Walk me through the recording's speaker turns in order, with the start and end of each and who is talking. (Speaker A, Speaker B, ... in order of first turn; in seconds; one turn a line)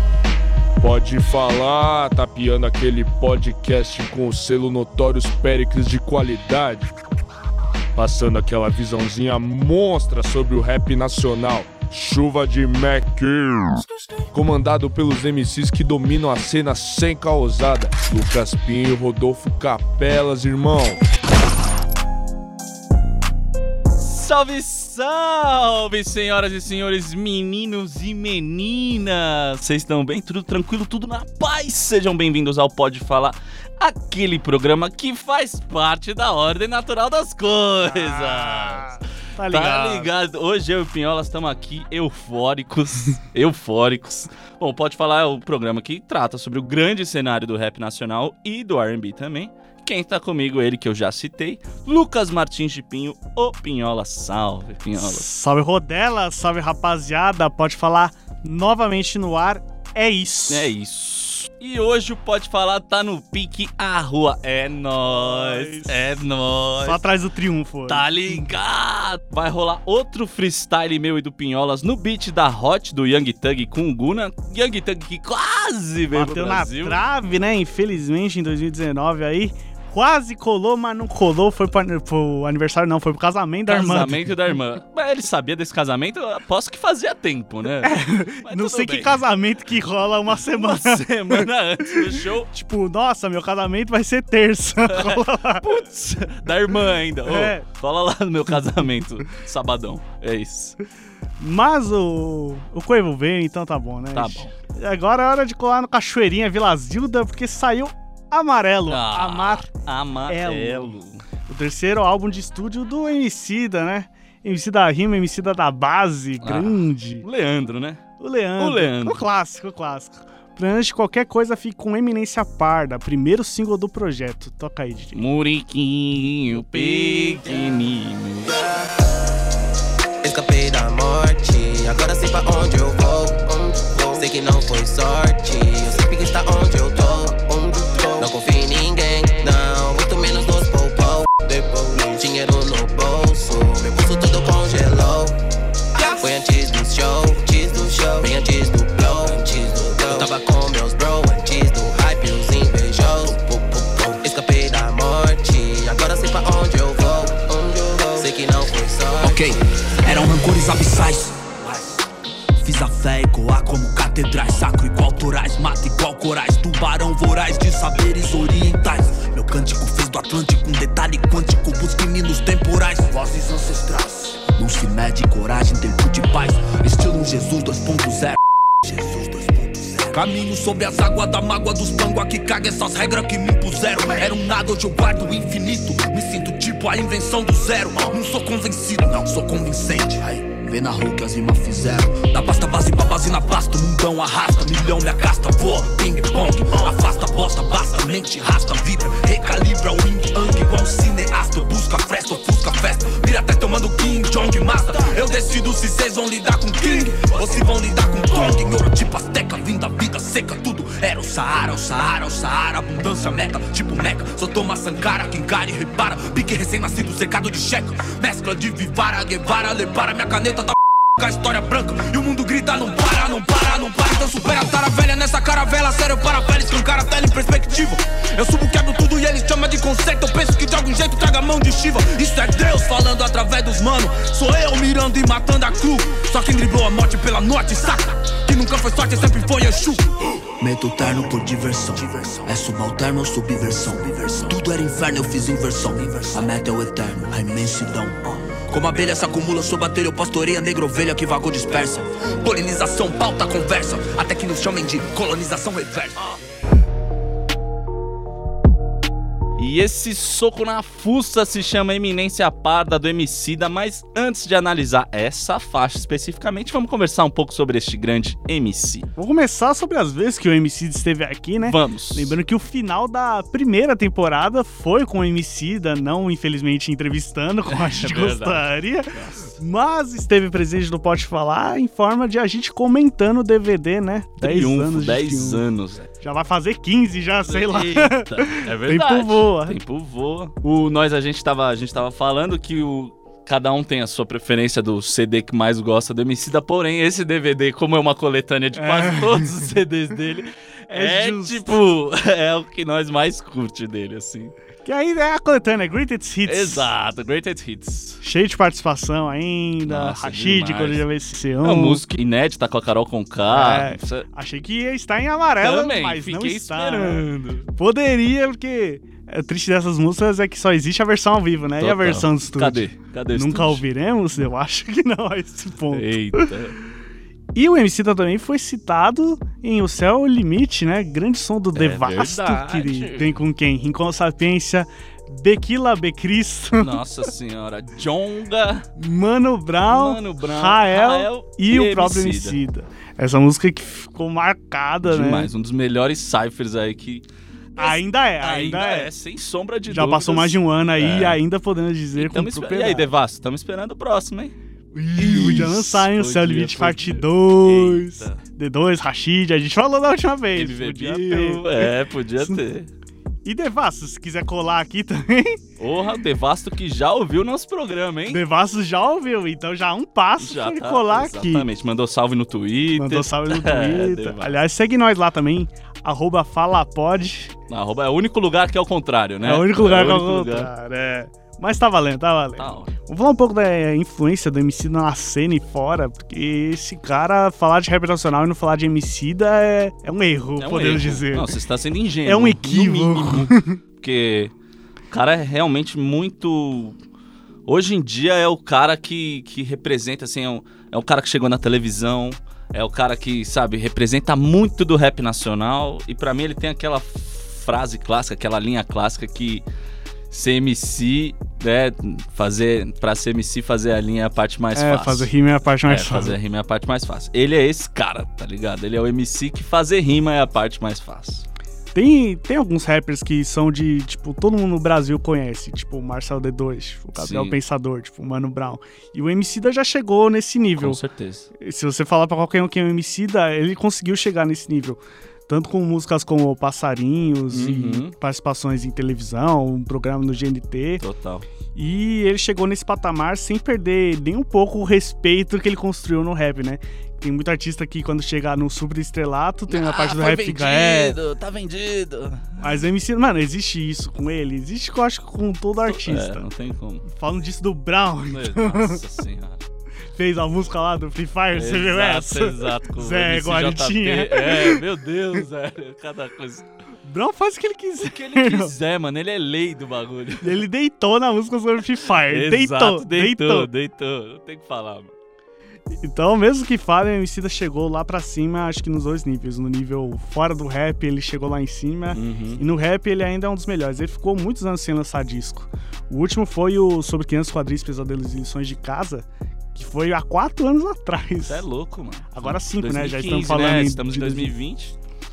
Speaker A: 0.8-6.8
Speaker A: 7.9-21.0
Speaker B: 23.9-55.2
Speaker C: 37.9-40.1
Speaker C: 55.0-60.7
Speaker B: 60.5-67.0
Speaker C: 65.0-66.0
Speaker C: 66.8-68.5
Speaker B: 67.9-77.0
Speaker C: 76.1-84.3
Speaker B: 83.7-89.2
Speaker C: 87.8-91.5
Speaker B: 90.3-92.5
Speaker C: 92.0-95.7
Speaker B: 94.9-100.8
Speaker C: 97.2-97.6
Speaker C: 101.4-109.7
Speaker B: 104.1-104.5
Speaker B: 108.9-111.2
Speaker C: 110.3-110.9
Speaker C: 111.5-117.2
Speaker B: 116.4-118.0
Speaker C: 118.2-125.2
Speaker B: 118.6-119.2
Speaker B: 125.1-128.6
Speaker D: 130.2-145.4
Speaker D: 146.1-159.5
Speaker E: 159.2-161.7
Speaker E: 162.6-256.3
Speaker B: 259.6-269.1
Speaker C: 269.2-285.6
Speaker B: 271.6-272.3
Speaker B: 277.7-279.6
Speaker B: 284.4-286.1
Speaker C: 286.2-289.8
Speaker B: 287.4-304.5
Speaker C: 298.8-299.5
Speaker C: 300.9-301.6
Speaker C: 304.8-306.9
Speaker B: 306.4-308.2
Speaker C: 308.2-312.0
Speaker B: 309.9-311.0
Speaker B: 311.6-314.2
Speaker C: 313.5-317.2
Speaker B: 315.6-317.7
Speaker C: 317.8-326.5
Speaker B: 321.8-323.8
Speaker B: 325.9-326.8
Speaker C: 327.5-337.0
Speaker B: 331.7-333.4
Speaker B: 336.8-338.9
Speaker C: 339.0-345.5
Speaker B: 339.9-342.6
Speaker B: 345.0-347.2
Speaker C: 347.8-349.1
Speaker B: 347.8-351.4
Speaker C: 349.9-353.1
Speaker B: 352.1-354.5
Speaker C: 354.9-362.6
Speaker B: 355.1-358.4
Speaker B: 360.5-362.9
Speaker C: 363.4-365.6
Speaker B: 365.8-368.4
Speaker C: 368.3-371.6
Speaker B: 370.4-374.5
Speaker C: 373.0-377.5
Speaker B: 377.7-380.7
Speaker C: 379.4-391.5
Speaker B: 382.6-382.9
Speaker B: 390.6-394.5
Speaker C: 392.2-393.8
Speaker B: 395.1-397.0
Speaker B: 397.6-409.6
Speaker B: 410.3-415.3
Speaker C: 414.7-416.4
Speaker B: 415.9-421.4
Speaker C: 421.9-431.0
Speaker B: 427.1-427.6
Speaker B: 430.8-431.5
Speaker C: 431.6-441.0
Speaker B: 437.5-438.1
Speaker B: 441.0-441.4
Speaker C: 441.7-451.2
Speaker B: 449.7-452.8
Speaker C: 452.6-456.4
Speaker B: 455.8-457.1
Speaker C: 457.1-459.0
Speaker B: 458.3-459.6
Speaker C: 460.1-464.8
Speaker B: 461.5-466.6
Speaker C: 467.0-468.7
Speaker B: 468.0-470.6
Speaker C: 470.4-473.7
Speaker B: 472.2-475.1
Speaker C: 476.0-491.6
Speaker B: 482.1-482.6
Speaker B: 491.4-494.9
Speaker C: 492.3-494.5